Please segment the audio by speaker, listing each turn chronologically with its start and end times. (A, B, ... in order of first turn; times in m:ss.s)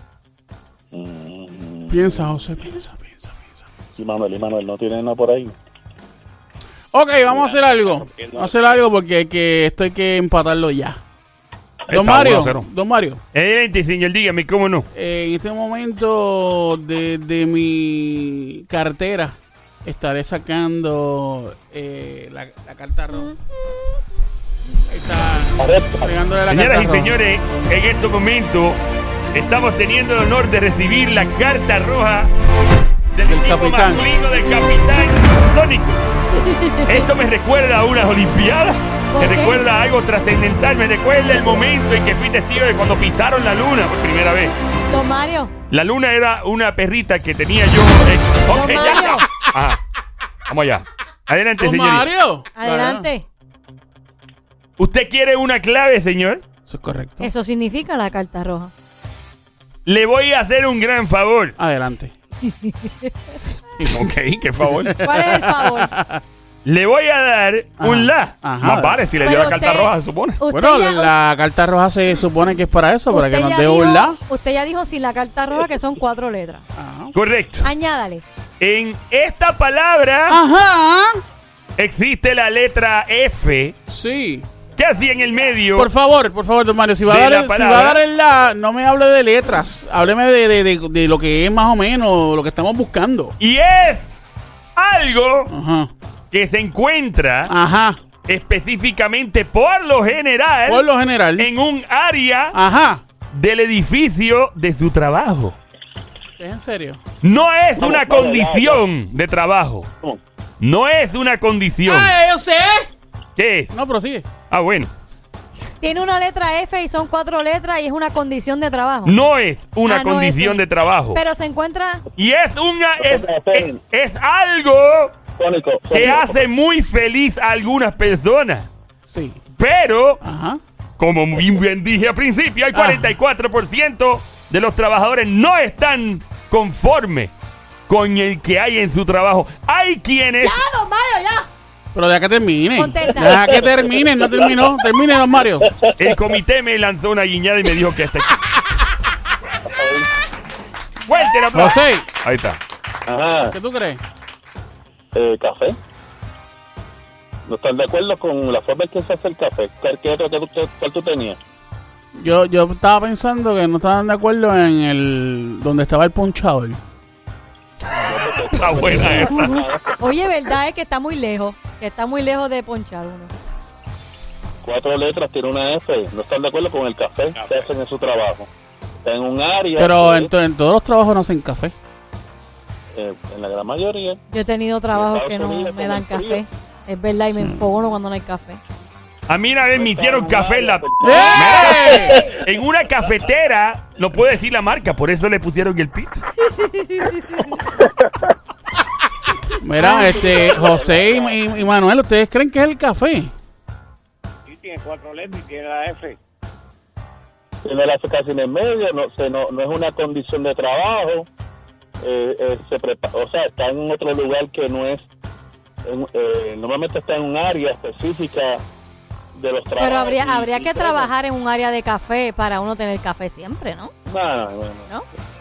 0:00.9-0:02.4 A
0:01.9-0:03.6 B
0:03.9-0:05.6 A
0:06.9-0:11.0 B
0:07.2-0:08.8 C
0:11.9-0:12.7 D
0:11.9-0:13.2 B
0:13.3-0:14.9 D
0:14.9-0:23.4 B
0:24.9-0:27.2 B
0:25.6-0:26.1 A
0:26.5-0:28.8 D
0:29.3-0:32.3 D
0:33.1-0:36.0 D
0:33.3-0:34.1 B
0:36.3-0:37.1 E
0:36.8-0:44.6 D
0:39.1-0:39.6 E
0:44.9-0:45.5 E
0:45.7-0:49.8 D
0:48.5-0:49.3 E
0:50.5-0:52.1 D
0:51.6-0:53.1 B
0:52.6-0:53.3 E
0:54.8-0:56.4 D
0:56.7-0:57.3 B
0:57.2-0:58.7 E
0:59.8-1:01.6 D
1:01.6-1:02.1 B
1:02.5-1:03.1 E
1:03.8-1:05.0 D
1:04.7-1:06.2 B
1:05.0-1:05.9 E
1:06.6-1:10.4 D
1:07.8-1:09.0 B
1:09.2-1:11.1 E
1:10.5-1:14.2 B
1:13.1-1:16.6 E
1:16.8-1:17.1 B
1:17.1-1:17.7 D
1:17.6-1:18.2 E
1:18.6-1:20.4 D
1:20.3-1:21.2 B
1:21.8-1:23.8 D
1:23.9-1:24.5 B
1:24.8-1:25.9 D
1:25.8-1:33.4 B
1:27.1-1:28.0 D
1:33.4-1:34.1 D
1:34.8-1:35.5 D
1:35.5-1:35.9 B
1:36.3-1:37.5 D
1:37.5-1:38.0 B
1:38.3-1:40.9 D
1:40.7-1:41.5 B
1:41.4-1:42.6 D
1:42.5-1:43.0 B
1:43.3-1:45.6 D
1:46.4-1:47.0 B
1:47.2-1:49.9 D
1:47.8-1:48.8 A
1:50.6-1:52.2 D
1:51.9-1:52.9 B
1:53.4-1:53.7 D
1:53.7-1:54.3 B
1:54.5-1:54.9 D
1:55.8-1:59.2 E
1:59.0-2:01.2 D
1:59.9-2:00.6 E
2:01.1-2:02.0 E
2:02.2-2:05.2 D
2:03.0-2:03.8 A
2:05.4-2:06.4 A
2:05.9-2:08.7 D
2:09.0-2:09.4 B
2:09.6-2:10.2 D
2:10.2-2:10.6 B
2:11.0-2:17.3 D
2:12.7-2:13.2 B
2:17.9-2:20.6 D
2:20.4-2:21.5 E
2:21.9-2:25.7 B
2:22.8-2:23.5 E
2:23.5-2:23.8 A
2:26.0-2:28.4 D
2:29.7-2:30.1 A
2:31.0-2:32.6 D
2:31.5-2:32.1 B
2:33.1-2:33.6 A
2:33.5-2:34.0 B
2:35.1-2:35.8 A
2:37.5-2:41.4 A
2:42.1-2:46.8 B
2:48.0-2:50.0 A
2:48.5-2:49.6 D
2:50.0-2:53.3 E
2:54.6-2:58.5 A
2:57.4-2:57.7 C
2:59.0-3:00.3 A
2:59.8-3:01.7 B
3:02.9-3:04.2 A
3:04.3-3:08.6 E
3:04.9-3:06.4 A
3:07.3-3:07.6 B
3:09.3-3:16.3 D
3:09.8-3:12.3 A
3:11.0-3:12.3 B
3:11.8-3:12.3 E
3:16.6-3:17.6 E
3:19.6-3:23.3 B
3:19.8-3:20.3 E
3:20.2-3:21.4 A
3:24.5-3:26.2 C
3:27.6-3:31.3 A
3:32.0-3:35.1 A
3:35.8-3:38.6 A
3:39.4-3:41.1 A
3:39.8-3:43.9 E
3:44.1-3:44.9 A